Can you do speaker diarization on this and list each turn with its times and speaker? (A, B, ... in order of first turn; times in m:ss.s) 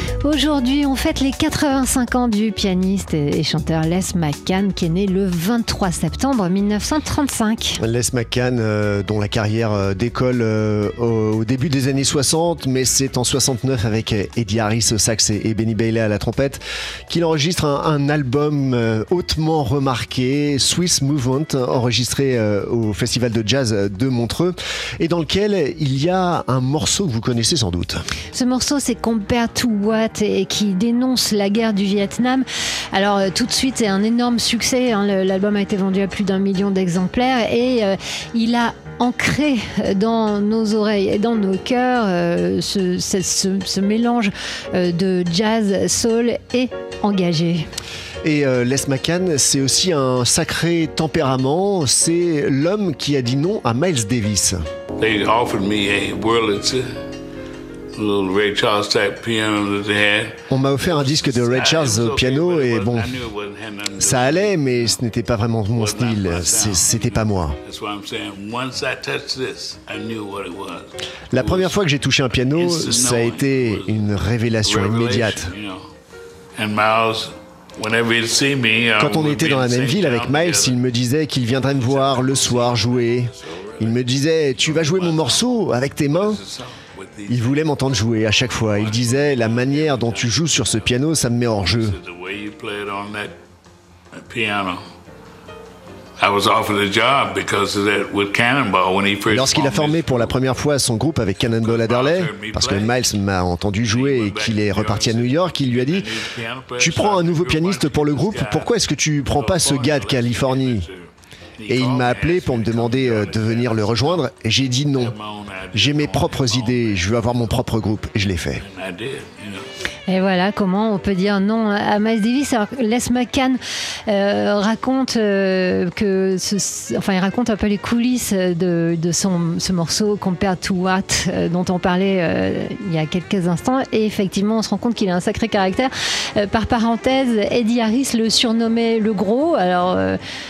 0:00.2-0:07.8 A
0:07.8-0:28.0 B
0:28.3-0:47.7 A
0:48.2-0:54.6 B
0:55.0-0:56.8 C
0:57.9-1:05.0 C
1:00.5-1:03.2 B
1:04.0-1:07.6 B
1:05.7-1:11.7 C
1:11.3-1:15.5 B
1:12.5-1:15.8 C
1:16.5-1:20.8 C
1:19.0-1:26.4 B
1:21.6-1:24.0 C
1:24.6-1:25.5 C
1:26.1-1:27.5 C
1:27.3-1:32.0 B
1:28.6-1:30.9 C
1:31.6-1:33.4 C
1:34.1-1:34.8 C
1:36.2-1:40.4 C
1:39.3-1:46.1 B
1:41.4-1:43.0 C
1:43.8-1:54.3 C
1:46.8-1:50.9 B
1:51.7-1:55.2 B
1:54.9-1:57.6 C
1:55.7-1:58.6 B
1:58.5-1:59.7 C
2:00.1-2:20.2 A